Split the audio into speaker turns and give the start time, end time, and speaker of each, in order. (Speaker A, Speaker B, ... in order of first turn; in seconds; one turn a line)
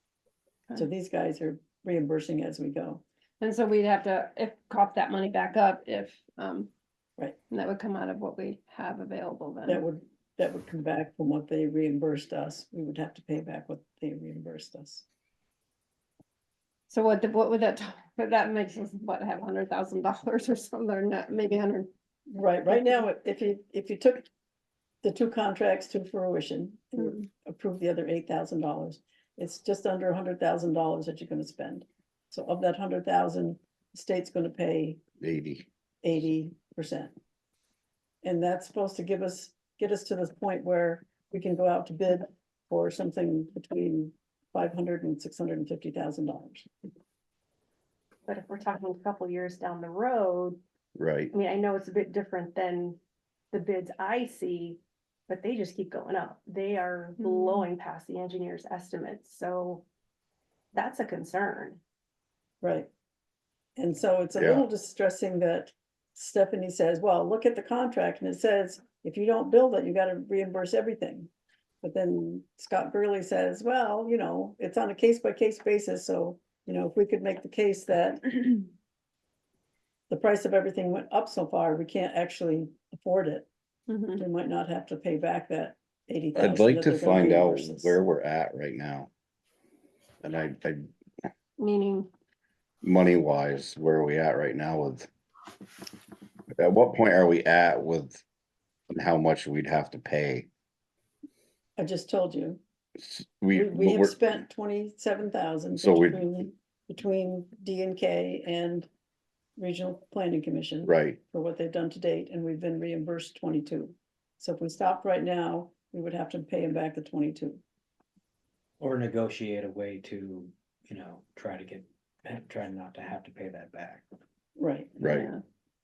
Speaker A: 0.8-3.0
Speaker B: 3.4-6.7
Speaker B: 7.5-9.8
Speaker A: 9.7-15.1
Speaker B: 16.9-21.9
Speaker A: 22.3-24.3
Speaker A: 25.0-35.0
Speaker C: 35.2-35.7
Speaker A: 36.0-37.1
Speaker A: 38.2-46.7
Speaker D: 48.3-50.6
Speaker C: 51.0-51.3
Speaker D: 51.3-53.0
Speaker D: 53.5-59.9
Speaker B: 57.2-57.7
Speaker D: 60.7-61.8
Speaker A: 62.6-62.9
Speaker A: 63.8-71.3
Speaker C: 64.4-64.6
Speaker A: 71.8-78.7
Speaker A: 80.1-83.5
Speaker B: 83.9-84.2
Speaker A: 84.2-88.0
Speaker C: 86.3-89.1
Speaker C: 90.2-90.9
Speaker B: 91.6-92.1
Speaker C: 92.8-95.1
Speaker C: 96.6-98.2
Speaker C: 98.9-100.5
Speaker A: 101.8-102.6
Speaker C: 103.0-104.2
Speaker A: 103.5-108.9
Speaker C: 105.8-106.2
Speaker A: 109.6-117.6
Speaker C: 110.8-111.2
Speaker E: 118.8-124.0
Speaker A: 124.6-125.0
Speaker C: 125.0-125.3
Speaker B: 125.1-125.4